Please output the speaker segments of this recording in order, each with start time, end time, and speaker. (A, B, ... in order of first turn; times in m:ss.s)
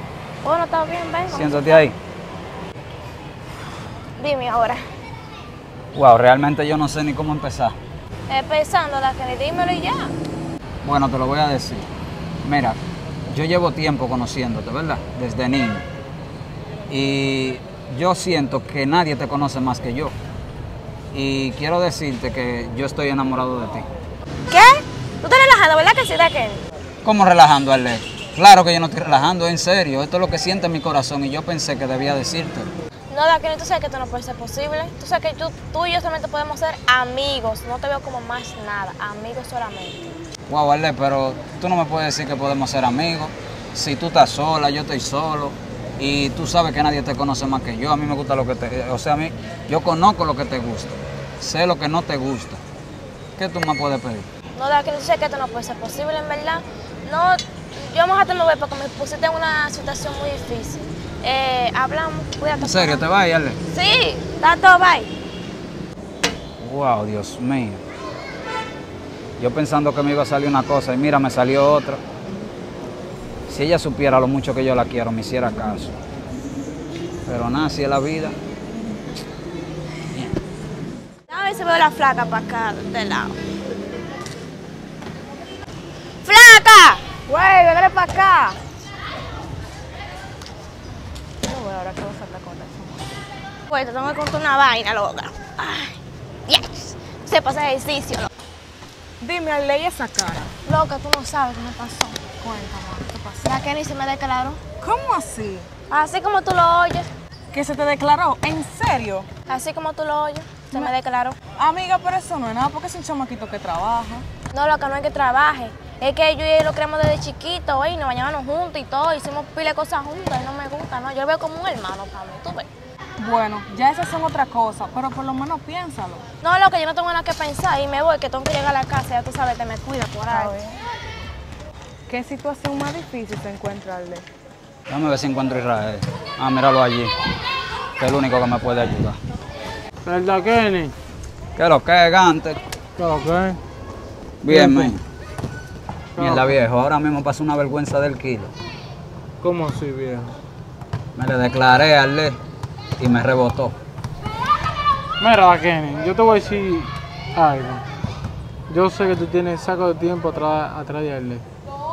0:00.4-0:01.9 A
0:01.3-0:02.0 B
0:04.2-0:04.8 A
0:05.9-0:07.8 B
0:08.3-0:10.1 A
0:10.8-0:11.9 B
0:12.4-0:15.8 B
0:16.9-0:20.2 B
0:21.1-0:23.9 B
0:24.5-0:26.6 A
0:27.0-0:32.7 B
0:33.1-0:40.2 A
0:40.5-0:52.6 B
0:53.4-0:54.3 B
0:54.5-1:03.1 A
1:02.6-1:03.6 B
1:03.7-1:05.1 A
1:06.6-1:07.8 B
1:09.4-1:12.0 B
1:13.5-1:16.0 B
1:17.3-1:18.4 B
1:21.3-1:23.4 A
1:26.2-1:27.2 A
1:27.3-1:28.5 C
1:27.9-1:28.2 A
1:31.4-1:33.1 C
1:33.7-1:38.3 A
1:39.2-1:40.5 C
1:40.7-1:42.2 A
1:42.4-1:43.6 C
1:43.4-1:44.6 A
1:44.8-1:45.7 C
1:45.9-1:47.1 A
1:47.5-1:49.3 C
1:49.5-1:51.4 A
1:51.6-1:54.3 C
1:54.5-2:02.7 A
2:03.2-2:06.2 C
2:06.4-2:10.5 A
2:10.3-2:10.8 C
2:12.1-2:14.3 C
2:14.9-2:17.1 B
2:18.0-2:19.2 B
2:20.0-2:21.0 D
2:21.6-2:22.6 B
2:23.0-2:23.6 D
2:24.4-2:25.0 B
2:24.5-2:25.0 D
2:26.2-2:26.6 D
2:26.2-2:28.5 B
2:29.4-2:30.4 D
2:31.2-2:32.4 B
2:33.0-2:33.8 B
2:35.2-2:37.8 D
2:38.7-2:41.4 D